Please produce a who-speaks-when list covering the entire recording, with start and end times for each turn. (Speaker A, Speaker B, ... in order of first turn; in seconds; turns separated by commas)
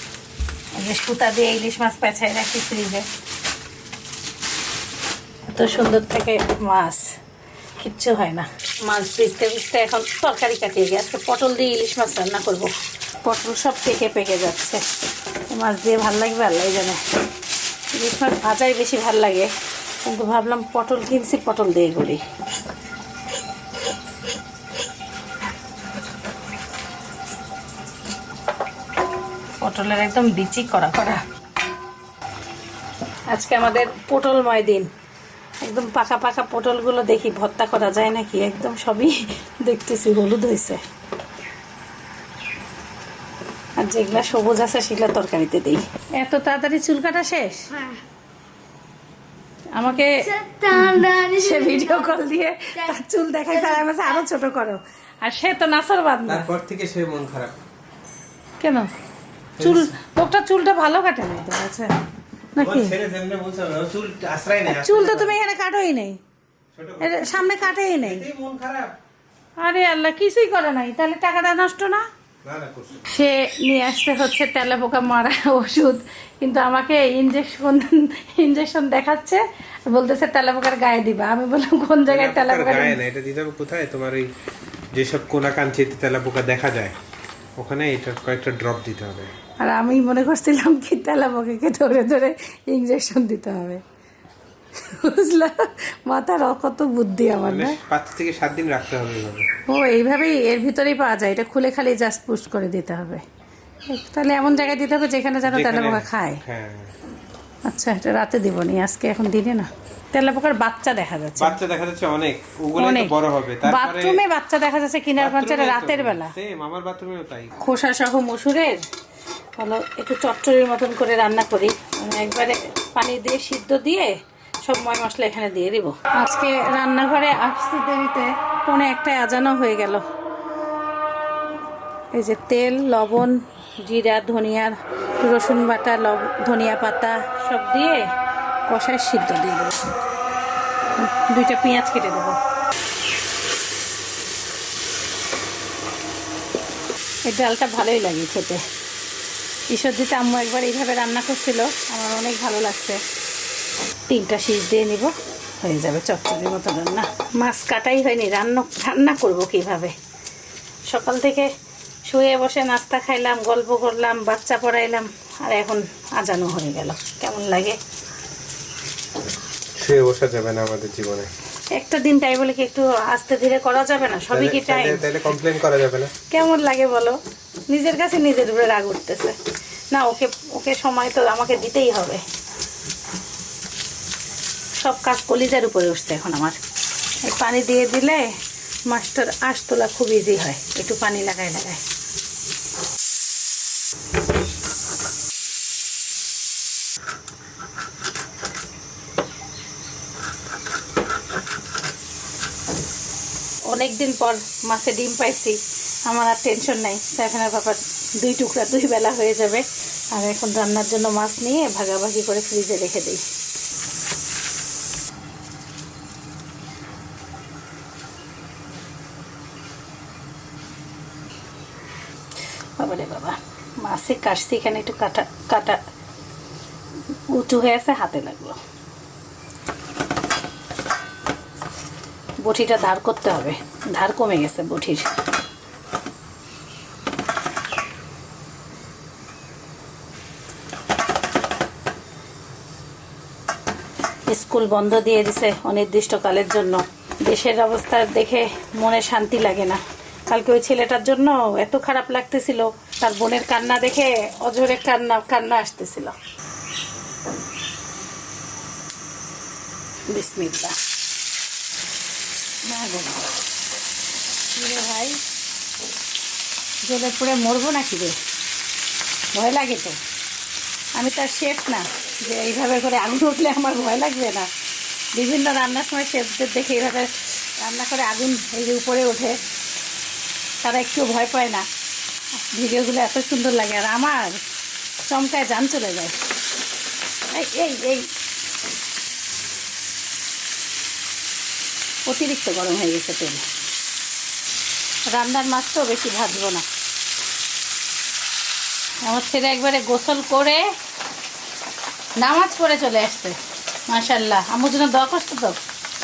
Speaker A: 0.7-3.1, Speaker A: 5.5-7.1, Speaker A: 7.8-12.7, Speaker A: 13.2-14.8, Speaker A: 15.5-17.0, Speaker A: 17.9-19.5, Speaker A: 20.0-22.2, Speaker A: 29.6-31.2, Speaker A: 33.3-34.9, Speaker A: 35.6-40.8, Speaker A: 43.8-47.6, Speaker B: 47.7-48.0, Speaker A: 49.7-50.2, Speaker B: 50.0-54.2, Speaker A: 50.8-56.5, Speaker C: 56.3-57.5, Speaker A: 58.6-58.9, Speaker C: 59.6-59.9, Speaker A: 59.6-61.9, Speaker A: 62.5-62.9, Speaker C: 62.6-65.4, Speaker A: 64.7-66.2, Speaker C: 66.7-68.9, Speaker A: 67.0-68.3, Speaker A: 69.6-72.0, Speaker C: 72.4-73.0, Speaker A: 73.1-83.0, Speaker C: 82.1-84.2, Speaker C: 84.9-86.9, Speaker C: 87.6-89.3, Speaker A: 89.6-93.8, Speaker A: 94.8-97.8, Speaker C: 97.5-99.5, Speaker A: 99.7-103.2, Speaker A: 103.9-106.4, Speaker C: 105.5-106.9, Speaker A: 107.7-111.6, Speaker C: 111.4-114.2, Speaker A: 112.8-116.3, Speaker C: 115.2-117.5, Speaker A: 117.6-118.8, Speaker A: 119.6-124.1, Speaker A: 124.7-130.0, Speaker A: 132.1-138.1, Speaker A: 138.7-139.8, Speaker A: 141.0-142.4, Speaker A: 147.2-148.6, Speaker A: 149.7-153.0, Speaker A: 154.1-159.9, Speaker A: 160.9-161.5, Speaker A: 162.1-167.8, Speaker C: 169.8-171.3, Speaker A: 171.7-175.1, Speaker C: 174.3-176.1, Speaker A: 176.3-179.3, Speaker A: 179.9-182.2, Speaker A: 184.8-186.6, Speaker A: 187.2-188.3, Speaker A: 188.9-191.8, Speaker A: 203.7-213.2, Speaker A: 222.8-225.8, Speaker A: 227.3-228.6, Speaker A: 232.4-235.1, Speaker A: 244.3-256.1, Speaker A: 260.1-260.7, Speaker A: 262.6-263.3, Speaker A: 264.5-265.2, Speaker A: 266.8-268.1, Speaker A: 269.3-270.0, Speaker A: 270.9-274.5, Speaker A: 275.1-279.4, Speaker A: 280.6-281.6, Speaker A: 282.4-284.4, Speaker A: 285.1-286.1, Speaker A: 287.3-288.1, Speaker A: 292.1-293.4, Speaker A: 295.1-296.6, Speaker A: 299.0-300.6, Speaker A: 302.2-303.4, Speaker A: 303.9-305.6